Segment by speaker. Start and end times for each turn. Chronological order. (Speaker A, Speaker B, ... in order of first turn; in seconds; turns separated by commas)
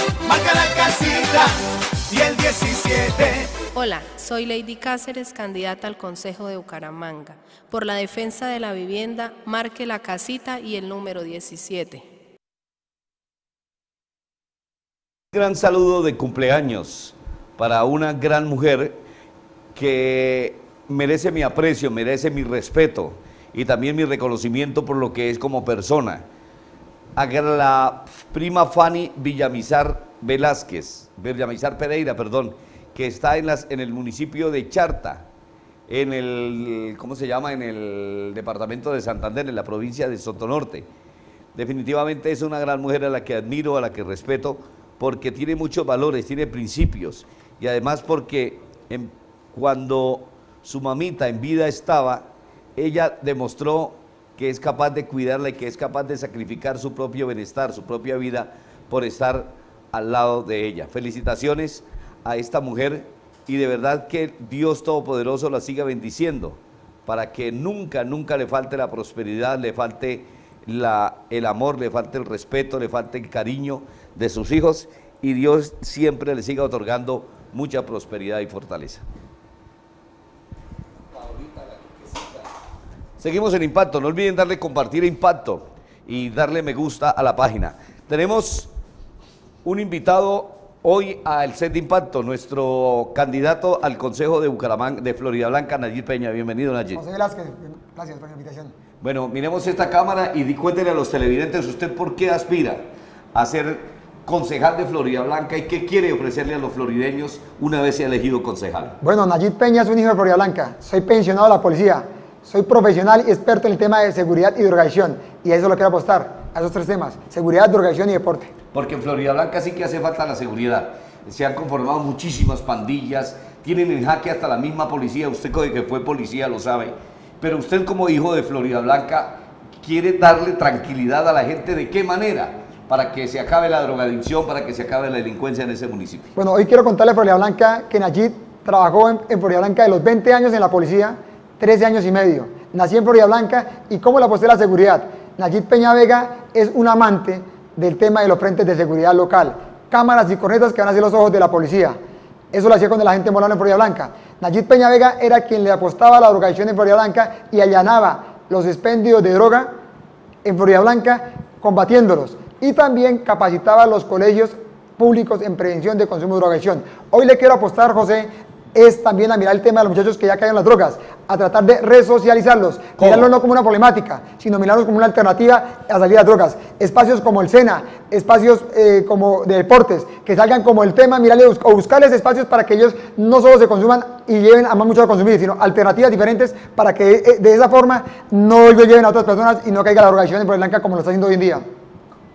Speaker A: 0.2-3.5, Speaker B: 3.8-12.0, Speaker C: 15.3-19.0, Speaker C: 19.8-26.2, Speaker C: 27.2-35.3, Speaker C: 35.9-40.9, Speaker C: 41.5-79.0, Speaker C: 81.6-82.2, Speaker C: 83.2-88.7, Speaker C: 89.7-97.0, Speaker D: 96.9-98.7, Speaker C: 99.0-109.0, Speaker D: 109.0-118.5, Speaker C: 118.7-136.3, Speaker D: 136.4-152.0, Speaker D: 152.5-159.7, Speaker D: 160.4-191.6, Speaker C: 173.0-173.3